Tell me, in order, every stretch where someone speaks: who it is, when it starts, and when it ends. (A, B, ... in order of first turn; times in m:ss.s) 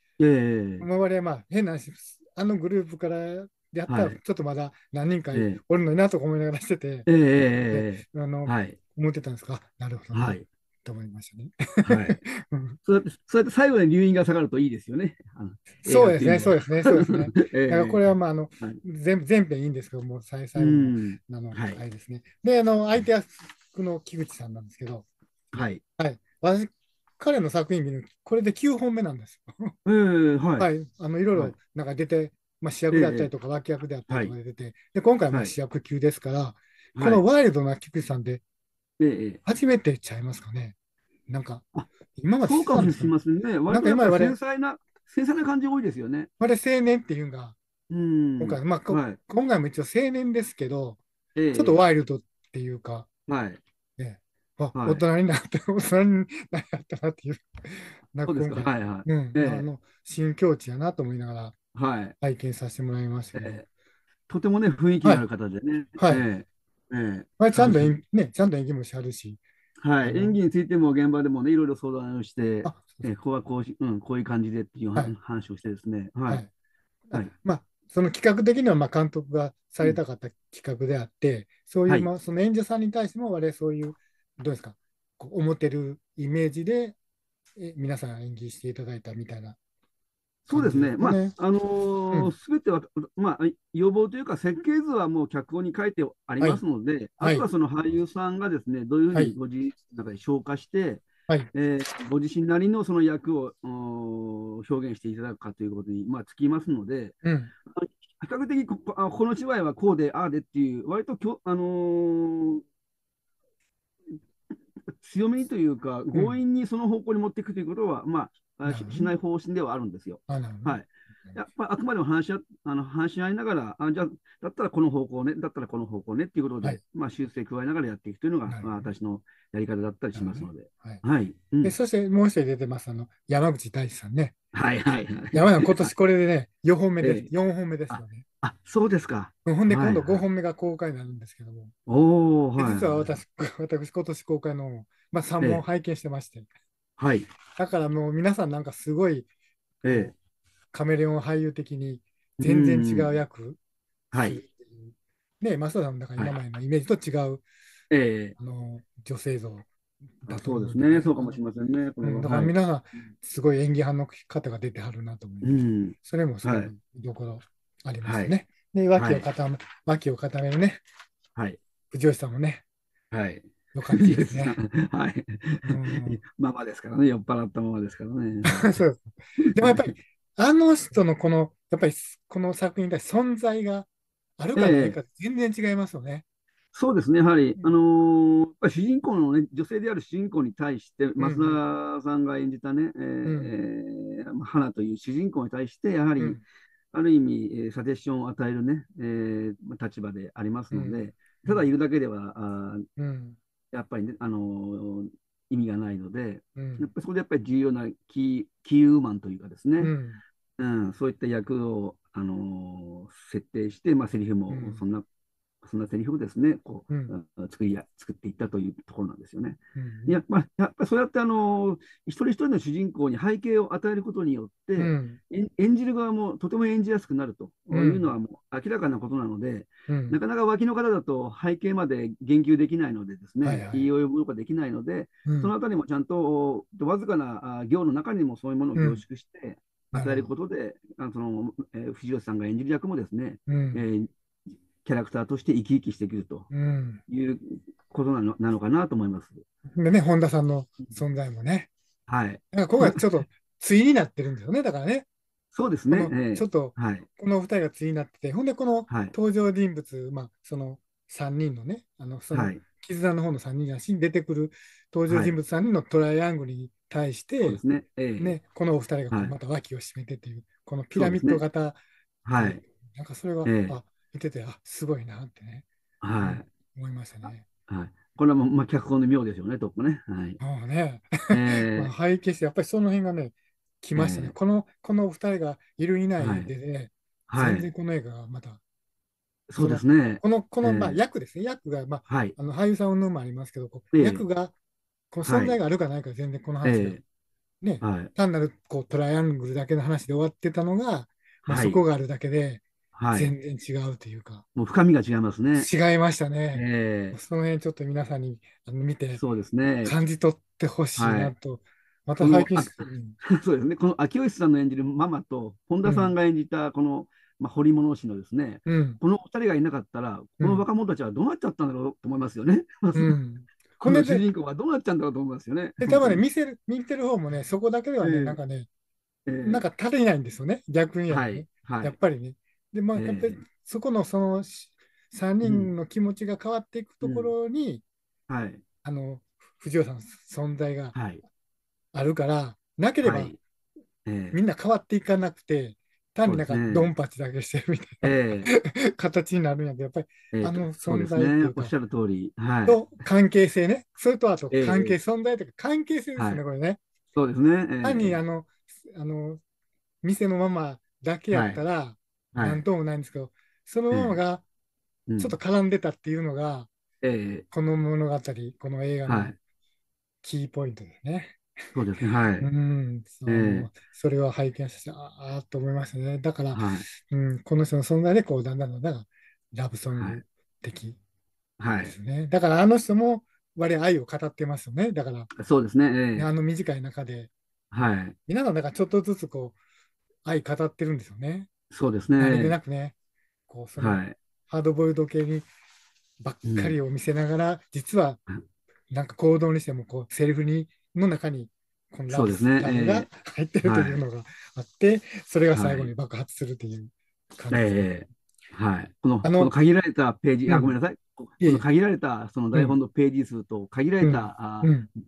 0:00.2-0:00.9 A
0:00.8-0:07.1 B
0:03.9-0:04.2 A
0:05.3-0:05.6 A
0:07.0-0:08.8 A
0:07.7-0:12.8 B
0:10.1-0:10.4 A
0:11.8-0:12.2 A
0:12.8-0:18.8 A
0:15.8-0:25.1 B
0:20.6-0:21.8 A
0:25.5-0:25.8 A
0:26.0-0:29.8 B
0:29.8-0:30.7 A
0:30.6-0:38.4 B
0:32.9-0:33.3 A
0:34.1-0:34.3 A
0:37.0-0:37.2 A
0:39.0-0:39.4 A
0:39.4-0:40.7 B
0:41.3-0:43.1 B
0:42.4-0:46.3 A
0:43.7-0:44.4 B
0:46.4-0:47.6 B
0:47.9-0:49.2 A
0:48.4-0:53.1 B
0:51.4-0:51.8 A
0:53.3-0:53.6 A
0:54.0-1:01.6 B
0:54.7-0:55.0 A
0:58.2-0:59.6 A
1:01.7-1:02.1 A
1:02.2-1:03.6 B
1:03.3-1:03.6 A
1:04.3-1:07.9 A
1:06.0-1:06.2 B
1:07.4-1:09.4 B
1:09.8-1:16.4 A
1:10.0-1:10.4 B
1:12.6-1:13.1 B
1:17.1-1:27.0 B
1:27.6-1:29.6 B
1:30.5-1:52.6 A
1:30.5-1:31.4 B
1:47.2-1:47.5 B
1:55.0-2:11.8 A
1:56.1-1:56.4 B
1:58.6-1:59.1 B
2:00.3-2:01.4 B
2:08.5-2:08.9 B
2:10.1-2:11.0 B
2:11.6-2:14.4 B
2:14.5-2:15.9 A
2:15.3-2:18.2 B
2:17.0-2:17.3 A
2:17.9-2:20.2 A
2:19.4-2:21.7 B
2:21.9-2:23.2 A
2:22.6-2:26.5 B
2:27.0-2:27.3 A
2:27.6-2:29.3 B
2:29.8-2:30.1 A
2:29.8-2:30.1 B
2:30.7-2:33.6 B
2:32.4-2:33.1 A
2:34.1-2:34.4 A
2:34.1-2:37.4 B
2:37.9-2:38.4 A
2:38.4-2:39.7 B
2:40.2-2:41.4 B
2:40.3-2:43.0 A
2:42.0-2:50.8 B
2:45.4-2:46.7 A
2:48.0-2:48.3 A
2:48.9-2:49.2 A
2:51.3-2:51.6 A
2:51.9-2:52.6 B
2:53.1-2:58.8 A
2:53.7-2:54.6 B
2:55.6-2:56.2 B
2:58.4-3:06.2 B
2:59.4-2:59.9 A
3:04.5-3:05.0 A
3:06.7-3:22.9 A
3:11.2-3:11.6 B
3:13.2-3:13.5 B
3:20.7-3:21.7 B
3:23.0-3:23.4 B
3:23.7-3:29.9 A
3:26.6-3:26.9 B
3:29.8-3:30.2 B
3:30.6-3:35.0 A
3:34.5-3:34.8 B
3:35.6-4:04.1 A
3:36.9-3:37.1 B
3:39.8-3:40.2 B
3:44.8-3:45.2 B
3:47.7-3:48.1 B
3:49.9-3:50.2 B
3:53.4-3:53.9 B
3:55.2-3:55.5 B
3:58.7-3:59.0 B
3:59.9-4:00.3 B
4:03.5-4:03.8 B
4:04.8-4:06.5 A
4:06.5-4:07.0 B
4:07.1-4:09.4 A
4:09.8-4:11.7 B
4:12.1-4:13.0 A
4:12.5-4:15.1 B
4:15.5-4:17.1 A
4:15.9-4:27.6 B
4:18.9-4:19.1 A
4:22.3-4:22.6 A
4:25.1-4:25.4 A
4:27.4-4:28.4 A
4:28.2-4:31.8 B
4:30.9-4:31.4 A
4:32.2-4:32.6 A
4:32.3-4:37.4 B
4:33.4-4:33.8 A
4:36.0-4:36.5 A
4:37.7-4:40.4 A
4:40.4-4:48.6 B
4:41.3-4:41.9 A
4:43.9-4:44.3 A
4:46.2-4:46.5 A
4:47.3-4:47.7 A
4:49.5-4:51.0 A
4:49.6-4:54.5 B
4:52.1-4:52.4 A
4:53.9-4:54.2 A
4:55.1-4:57.0 B
4:55.2-4:55.6 A
4:56.6-4:57.0 A
4:57.6-5:04.4 B
4:57.8-4:58.1 A
5:01.5-5:01.8 A
5:02.9-5:03.3 A
5:04.5-5:05.7 A
5:05.5-5:09.2 B
5:06.5-5:07.2 A
5:09.1-5:09.9 A
5:09.8-5:13.2 B
5:11.0-5:11.3 A
5:12.2-5:23.2 A
5:15.8-5:16.1 B
5:18.6-5:19.0 B
5:20.4-5:20.6 B
5:22.9-5:24.2 B
5:23.8-5:26.2 A
5:25.8-5:28.7 B
5:28.0-5:28.4 A
5:29.3-5:29.6 A
5:29.4-5:37.8 B
5:31.1-5:31.9 A
5:32.9-5:33.4 A
5:35.4-5:35.7 A
5:37.0-5:37.3 A
5:38.3-5:38.6 A
5:38.8-5:41.0 B
5:40.9-5:41.2 A
5:41.9-5:43.3 B
5:43.0-5:43.4 A
5:44.0-5:44.4 A
5:44.3-5:51.7 B
5:46.2-5:46.9 A
5:48.0-5:48.5 A
5:50.3-5:52.9 A
5:52.6-5:56.8 B
5:54.5-5:55.0 A
5:56.2-5:56.4 A
5:57.1-5:58.2 A
5:57.8-5:59.4 B
6:00.0-6:04.4 B
6:01.3-6:01.6 A
6:02.3-6:02.6 A
6:03.9-6:04.2 A
6:05.1-6:05.3 A
6:05.2-6:06.7 B
6:07.0-6:07.4 A
6:07.5-6:09.3 B
6:09.0-6:09.3 A
6:10.2-6:11.5 B
6:11.7-6:12.5 A
6:12.4-6:21.0 B
6:13.3-6:13.7 A
6:16.5-6:16.9 A
6:19.9-6:20.2 A
6:21.6-6:21.9 A
6:21.8-6:25.3 B
6:25.4-6:26.3 A
6:26.1-6:27.3 B
6:27.7-6:28.2 A
6:28.3-6:29.6 B
6:30.2-6:31.5 B
6:31.7-6:32.6 A
6:32.2-6:33.0 B
6:33.5-6:35.5 B
6:33.8-6:34.2 A
6:36.2-6:38.2 B
6:36.4-6:36.8 A
6:38.9-6:47.9 B
6:42.1-6:43.1 A
6:43.6-6:44.0 A
6:45.5-6:45.9 A
6:47.5-6:54.8 A
6:49.2-6:49.5 B
6:50.5-6:50.7 B
6:52.5-6:52.8 B
6:54.0-6:54.9 B